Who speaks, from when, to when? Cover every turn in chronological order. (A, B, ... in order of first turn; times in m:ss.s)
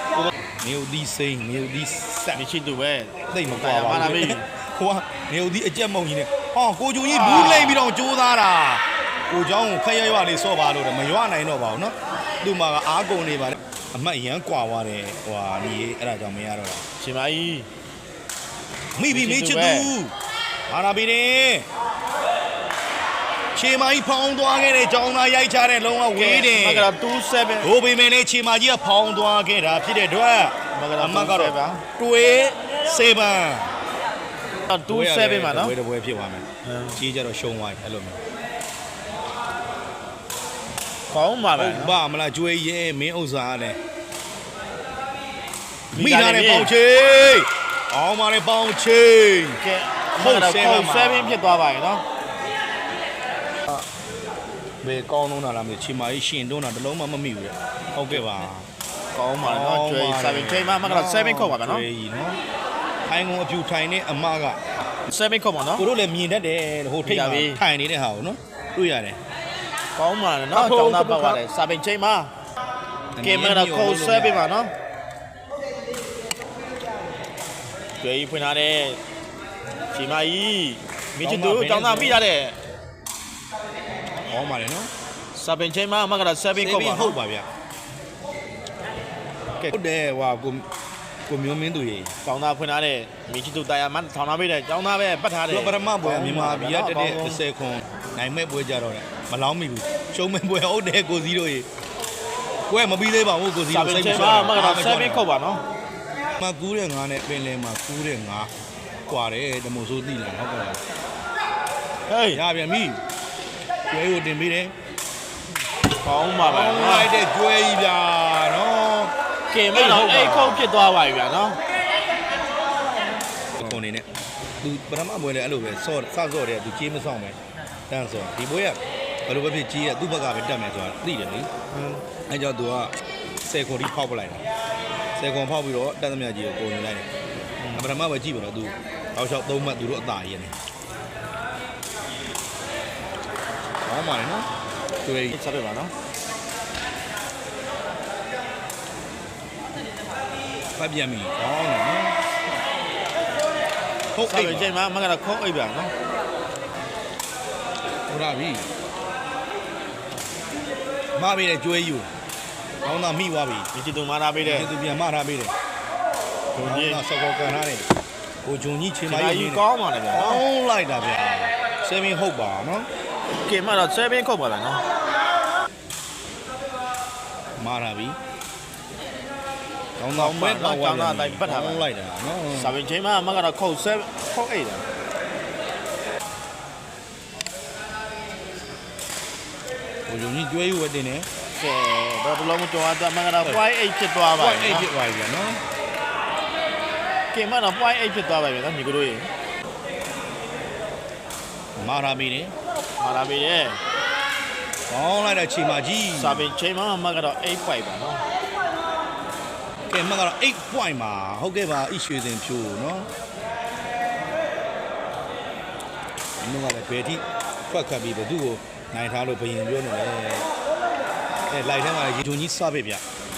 0:00.2-0:02.4 A
0:02.4-0:04.4 B
0:03.3-0:16.8 A
0:07.1-0:07.8 B
0:17.0-0:17.7 B
0:19.0-0:20.1 A
0:19.1-0:19.9 B
0:20.7-0:21.7 A
0:23.6-0:26.9 A
0:26.1-0:27.7 B
0:27.6-0:33.7 A
0:30.7-0:31.8 B
0:34.7-0:35.7 B
0:34.9-0:36.4 A
0:36.6-0:37.0 B
0:37.0-0:38.2 A
0:41.1-0:42.0 B
0:41.6-0:43.8 A
0:45.9-0:46.7 B
0:46.0-0:49.6 A
0:49.6-0:52.0 B
0:50.2-0:51.4 A
0:54.8-0:58.7 A
0:59.1-1:01.8 B
0:59.4-1:02.4 A
1:03.1-1:04.6 A
1:05.1-1:05.9 B
1:05.8-1:09.2 A
1:07.0-1:07.6 B
1:10.0-1:12.3 B
1:10.5-1:11.4 A
1:13.2-1:14.5 A
1:13.2-1:14.7 B
1:18.0-1:19.0 B
1:19.9-1:22.6 B
1:21.2-1:22.2 A
1:24.3-1:24.9 A
1:25.4-1:27.2 B
1:26.6-1:27.5 A
1:29.7-1:30.7 A
1:31.3-1:32.1 A
1:32.2-1:37.4 B
1:35.5-1:41.7 A
1:42.7-1:45.3 A
1:43.7-1:45.6 B
1:46.4-1:48.5 A
1:49.1-1:50.8 A
1:52.1-1:52.4 B
1:52.3-1:53.0 A
1:53.9-1:54.7 A
1:56.0-1:57.1 B
1:56.4-1:59.1 A
1:59.5-2:01.6 B
1:59.7-2:00.7 A
2:03.6-2:04.1 A
2:04.6-2:07.4 A
2:07.9-2:11.5 A
2:11.7-2:12.0 B
2:12.3-2:12.9 A
2:13.4-2:14.4 A
2:15.2-2:17.0 A
2:17.6-2:17.9 B
2:17.8-2:20.5 A
2:23.8-2:24.5 A
2:25.0-2:25.4 A
2:25.3-2:25.9 B
2:30.8-2:32.2 A
2:34.1-2:34.7 A
2:34.3-2:35.9 B
2:38.1-2:38.7 A
2:41.2-2:42.1 A
2:42.8-2:43.7 A
2:43.7-2:44.7 B
2:44.4-2:45.5 A
2:46.6-2:47.0 B
2:46.6-2:47.9 A
2:48.4-2:52.9 A
2:49.1-2:50.4 B
2:53.4-2:54.8 B
2:57.6-2:58.2 A
3:00.0-3:02.8 A
3:00.1-3:01.9 B
3:02.5-3:04.8 B
3:10.1-3:11.3 A
3:11.6-3:14.9 B
3:14.3-3:15.6 A
3:17.3-3:19.3 B
3:21.8-3:22.5 A
3:23.0-3:23.8 B
3:24.9-3:26.5 A
3:26.2-3:28.2 B
3:29.9-3:33.1 A
3:36.4-3:40.5 A
3:41.5-3:43.0 A